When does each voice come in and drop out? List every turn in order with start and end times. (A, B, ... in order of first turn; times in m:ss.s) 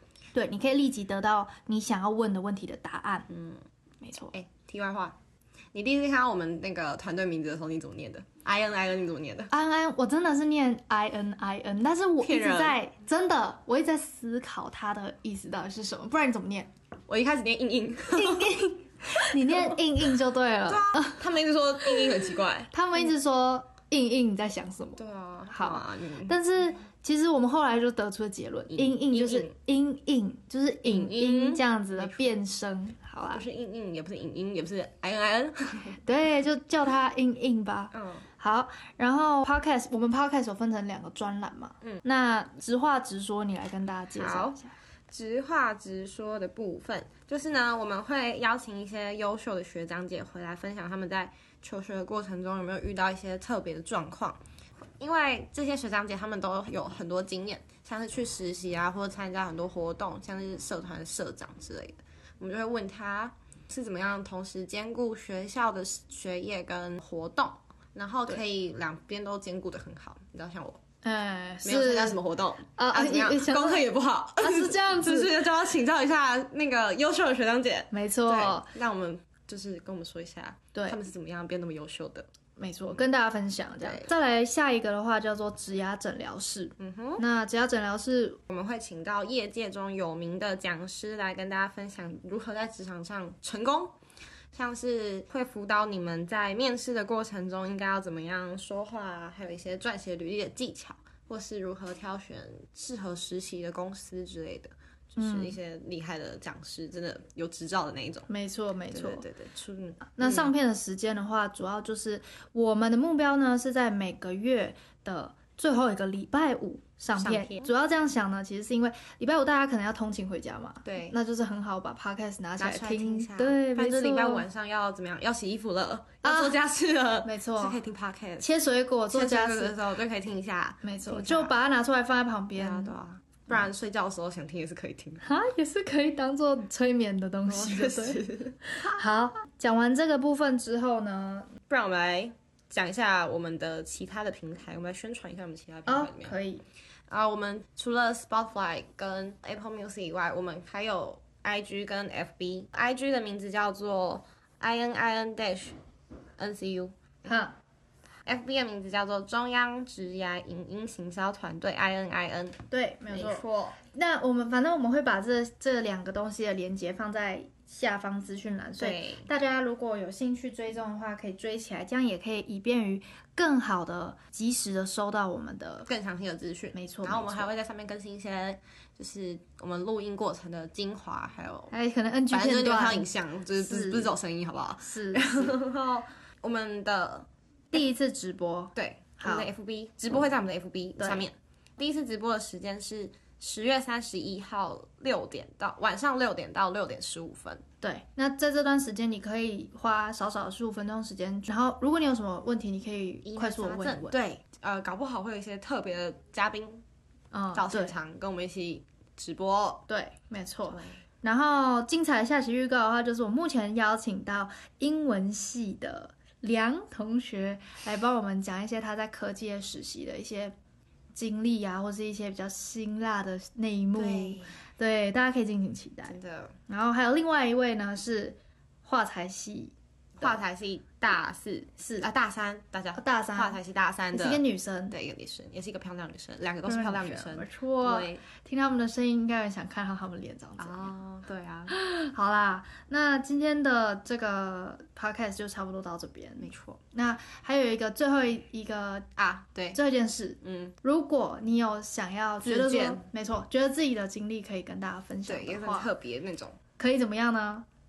0:00.3-0:03.3 A
0:03.3-0:03.6 B
0:04.0-0:04.3 A
0:04.3-0:05.2 B
0:05.7-0:09.5 B
0:09.5-0:16.7 A
0:12.2-0:12.8 B
0:17.1-0:18.6 B
0:18.1-0:21.2 A
0:19.2-0:19.8 B
0:20.7-0:22.7 B
0:21.9-0:25.0 A
0:25.0-0:26.4 B
0:25.5-0:33.5 A
0:28.7-0:29.5 B
0:30.8-0:32.4 B
0:33.3-0:36.0 B
0:36.0-0:44.7 A
0:37.9-0:38.2 B
0:44.2-0:44.6 B
0:45.1-0:54.4 B
0:55.0-1:10.8 B
1:11.0-1:12.2 A
1:11.6-1:22.3 B
1:12.7-1:15.4 A
1:17.9-1:18.7 A
1:20.7-1:21.0 A
1:22.6-1:28.4 A
1:23.8-1:24.1 B
1:26.8-1:27.2 B
1:28.5-1:34.0 B
1:34.5-1:48.3 B
1:45.2-1:45.6 A
1:48.3-1:49.3 A
1:48.9-1:50.5 B
1:50.2-2:04.5 A
1:57.2-1:57.7 B
2:00.8-2:01.2 B
2:02.6-2:08.5 B
2:06.2-2:06.6 A
2:07.2-2:07.8 A
2:08.4-2:09.8 A
2:09.1-2:11.5 B
2:10.8-2:13.0 A
2:12.6-2:15.2 B
2:15.2-2:21.5 A
2:17.5-2:19.0 B
2:21.7-2:26.4 B
2:25.9-2:26.6 A
2:27.1-2:35.8 B
2:36.4-2:37.3 B
2:37.2-2:37.6 A
2:38.2-2:42.6 B
2:42.7-2:55.9 A
2:43.1-2:43.8 B
2:48.8-2:49.3 B
2:55.9-3:01.7 B
2:56.7-2:57.5 A
3:01.7-3:04.1 A
3:02.3-3:07.3 B
3:04.8-3:05.6 A
3:07.7-3:09.5 A
3:08.8-3:17.6 B
3:11.0-3:11.3 A
3:17.8-3:24.2 A
3:23.2-3:26.8 B
3:27.3-3:28.0 A
3:27.5-3:29.8 B
3:29.9-3:40.6 A
3:30.7-3:31.0 B
3:41.1-3:46.2 A
3:44.0-3:44.6 B
3:46.1-3:46.6 B
3:46.7-3:50.4 A
3:50.2-3:58.2 B
3:51.8-3:52.1 A
3:53.0-3:53.6 A
3:54.1-3:55.0 A
3:56.7-4:00.9 A
4:00.6-4:01.7 B
4:01.7-4:09.1 A
4:06.4-4:06.8 B
4:09.2-4:09.8 B
4:09.7-4:15.9 A
4:10.4-4:10.8 B
4:12.4-4:13.1 B
4:15.3-4:16.6 B
4:16.8-4:17.7 A